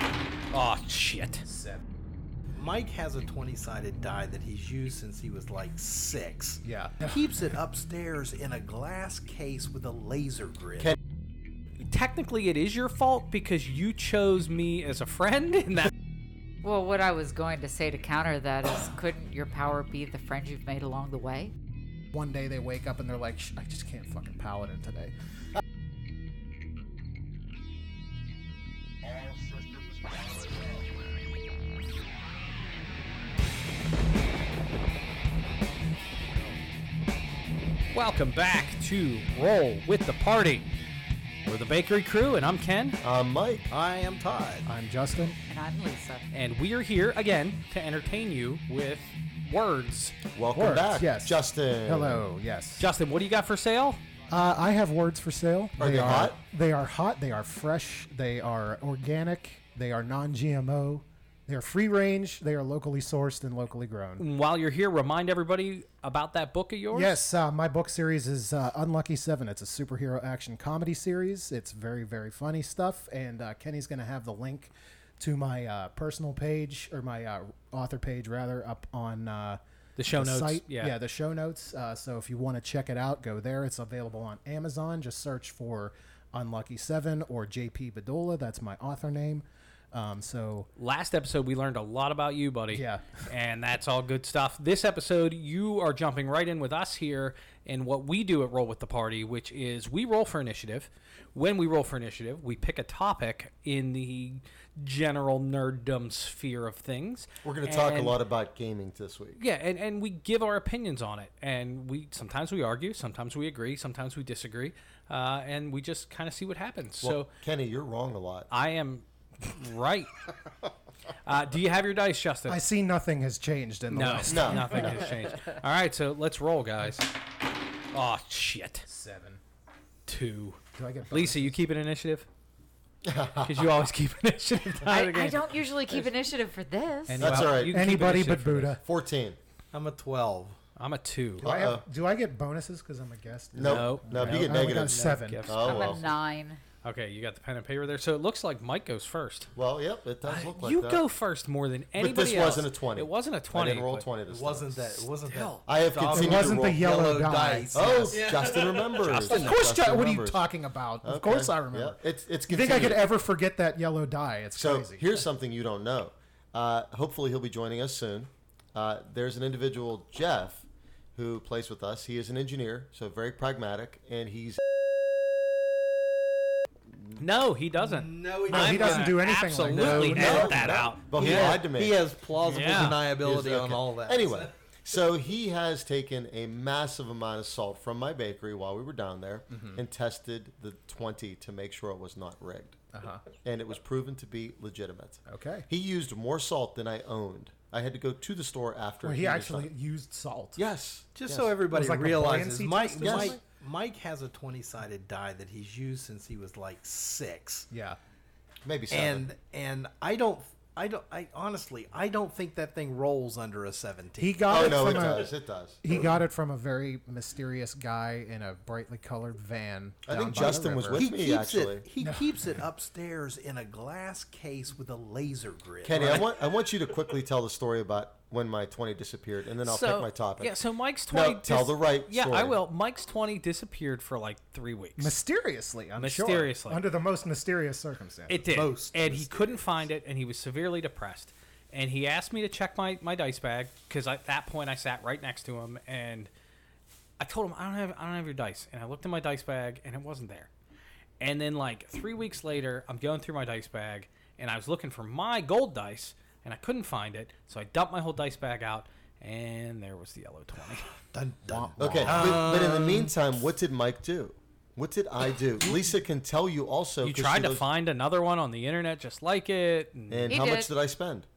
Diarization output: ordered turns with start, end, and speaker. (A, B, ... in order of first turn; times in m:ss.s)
0:00.5-0:01.5 A
0:01.5-0:01.8 B
0:02.5-0:11.0 C
0:06.6-0:07.2 B
0:11.8-0:15.9 A
0:16.6-0:21.5 D
0:22.1-0:25.2 B
0:37.9-0:40.7 A
0:41.4-0:43.0 A
0:43.0-0:43.7 E
0:43.7-0:44.7 C
0:44.7-0:45.4 B
0:45.5-0:46.2 D
0:46.3-0:50.2 A
0:50.4-0:52.2 E
0:50.5-0:52.9 B
0:52.8-0:54.0 A
0:54.3-1:04.3 B
0:55.8-0:56.4 E
1:04.2-1:07.2 A
1:06.9-1:19.6 B
1:20.0-1:21.0 A
1:20.1-1:30.7 B
1:30.8-1:48.2 A
1:32.7-1:33.1 B
1:47.4-1:49.4 E
1:49.4-1:57.3 A
1:57.0-1:58.5 E
1:58.5-2:00.1 A
2:01.3-2:02.6 A
2:02.5-2:05.1 B
2:03.9-2:07.1 A
2:04.3-2:05.2 E
2:07.9-2:08.9 A
2:08.9-2:09.4 B
2:10.1-2:10.6 A
2:10.7-2:11.6 B
2:11.1-2:12.3 A
2:13.0-2:13.7 E
2:13.4-2:15.5 A
2:14.8-2:17.5 D
2:17.1-2:18.8 A
2:17.2-2:17.9 E
2:17.6-2:18.8 B
2:18.8-2:19.4 E
2:19.7-2:20.6 C
2:20.8-2:21.5 A
2:21.4-2:25.5 B
2:21.4-2:21.8 E
2:23.5-2:26.1 E
2:23.6-2:26.1 A
2:25.6-2:26.6 D
2:26.8-2:29.5 A
2:29.6-2:31.0 E
2:30.3-2:34.1 A
2:32.0-2:35.1 E
2:34.3-2:39.3 C
2:35.6-2:36.8 E
2:36.1-2:38.2 B
2:37.7-2:40.4 E
2:39.0-2:39.8 A
2:39.3-2:45.3 B
2:41.0-2:43.1 E
2:44.6-2:54.6 E
2:57.2-3:01.6 A
2:57.8-3:04.5 C
2:58.5-3:00.9 B
3:00.1-3:02.0 E
3:02.4-3:03.0 A
3:03.1-3:12.8 E
3:09.5-3:09.8 B
3:12.9-3:13.2 B
3:13.4-3:19.7 E
3:15.3-3:15.7 B
3:19.0-3:20.6 B
3:20.6-3:21.5 E
3:21.2-3:27.7 C
3:21.7-3:23.4 B
3:23.0-3:23.4 E
3:27.7-3:28.0 B
3:28.6-3:29.2 E
3:28.9-3:35.2 C
3:34.2-3:41.1 B
3:34.5-3:35.8 E
3:40.1-3:41.8 E
3:40.9-3:46.4 C
3:42.0-3:42.4 B
3:45.8-3:52.6 E
3:49.6-3:55.2 A
3:55.0-3:59.0 B
3:56.0-3:56.8 A
3:58.3-4:06.3 A
3:58.5-3:59.6 C
4:07.2-4:10.5 A
4:11.2-4:20.9 A
4:21.1-4:23.1 C
4:21.4-4:22.5 B
4:21.8-4:27.7 E
4:27.0-4:30.4 A
4:30.1-4:31.3 E
4:30.3-4:30.7 D